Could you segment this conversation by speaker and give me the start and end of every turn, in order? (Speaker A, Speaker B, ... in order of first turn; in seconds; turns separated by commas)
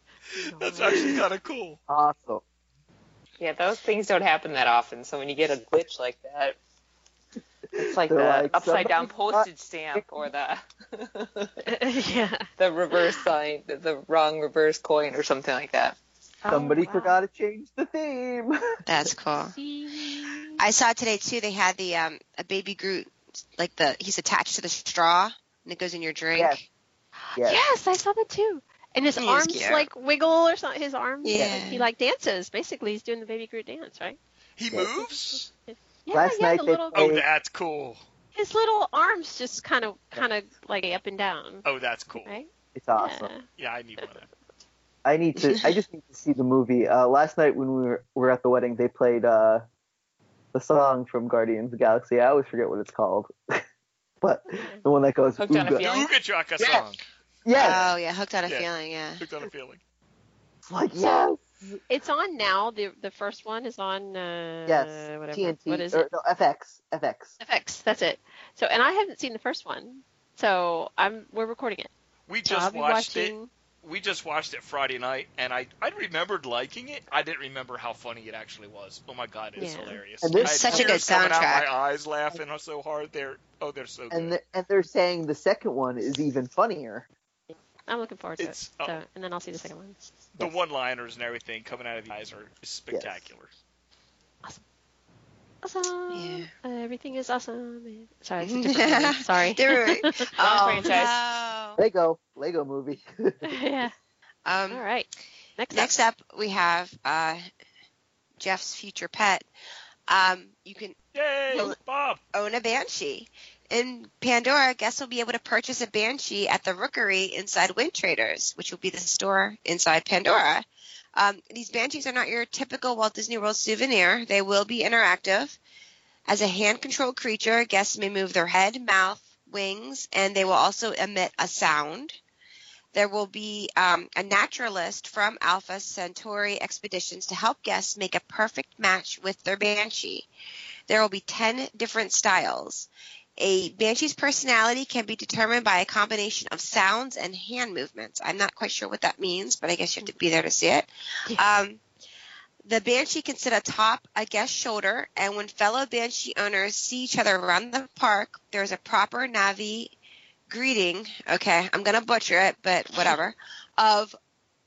Speaker A: 0.4-1.1, Speaker B: 0.6-1.8, Speaker C: 1.9-2.4, Speaker D: 3.4-6.6, Speaker C: 7.8-10.1, Speaker D: 7.8-11.5, Speaker A: 11.6-13.2, Speaker D: 12.6-16.0, Speaker A: 16.4-17.2, Speaker C: 16.5-18.6, Speaker E: 18.9-19.5, Speaker A: 19.4-20.6, Speaker E: 20.6-26.6, Speaker C: 26.3-26.6, Speaker A: 27.3-34.2, Speaker C: 27.4-27.6, Speaker E: 29.2-29.9, Speaker E: 31.2-31.9, Speaker C: 31.4-31.6, Speaker B: 34.6-35.5, Speaker C: 34.7-35.0, Speaker A: 35.7-37.0, Speaker C: 36.1-37.2, Speaker B: 36.9-38.0, Speaker A: 38.3-41.6, Speaker B: 41.6-42.4, Speaker A: 42.2-43.4, Speaker C: 42.7-43.3, Speaker B: 43.6-44.3, Speaker C: 45.0-49.6, Speaker C: 50.5-53.6, Speaker C: 54.2-55.8, Speaker D: 55.4-56.9, Speaker B: 55.8-57.0, Speaker C: 57.4-57.9, Speaker E: 57.5-59.2, Speaker B: 58.5-59.8, Speaker C: 60.6-61.8, Speaker A: 61.9-66.1, Speaker C: 64.7-67.3, Speaker A: 67.4-71.9, Speaker B: 72.3-84.3, Speaker A: 72.4-73.5, Speaker A: 79.6-80.0, Speaker C: 80.2-81.0, Speaker E: 80.4-81.7, Speaker C: 84.1-87.1, Speaker A: 87.5-90.0, Speaker B: 88.4-89.0, Speaker B: 90.3-93.5, Speaker C: 92.9-93.2, Speaker A: 95.6-101.1, Speaker E: 96.1-96.5, Speaker E: 98.4-101.8, Speaker D: 100.4-101.2, Speaker C: 101.8-103.4, Speaker A: 103.4-103.9, Speaker E: 104.5-104.8, Speaker A: 104.7-105.9, Speaker E: 105.7-107.5, Speaker E: 108.4-109.5, Speaker E: 110.1-111.0, Speaker B: 111.1-112.2, Speaker E: 112.3-125.6, Speaker E: 126.3-132.2, Speaker E: 132.9-140.3, Speaker E: 140.9-151.8, Speaker E: 152.6-159.9, Speaker E: 160.5-164.2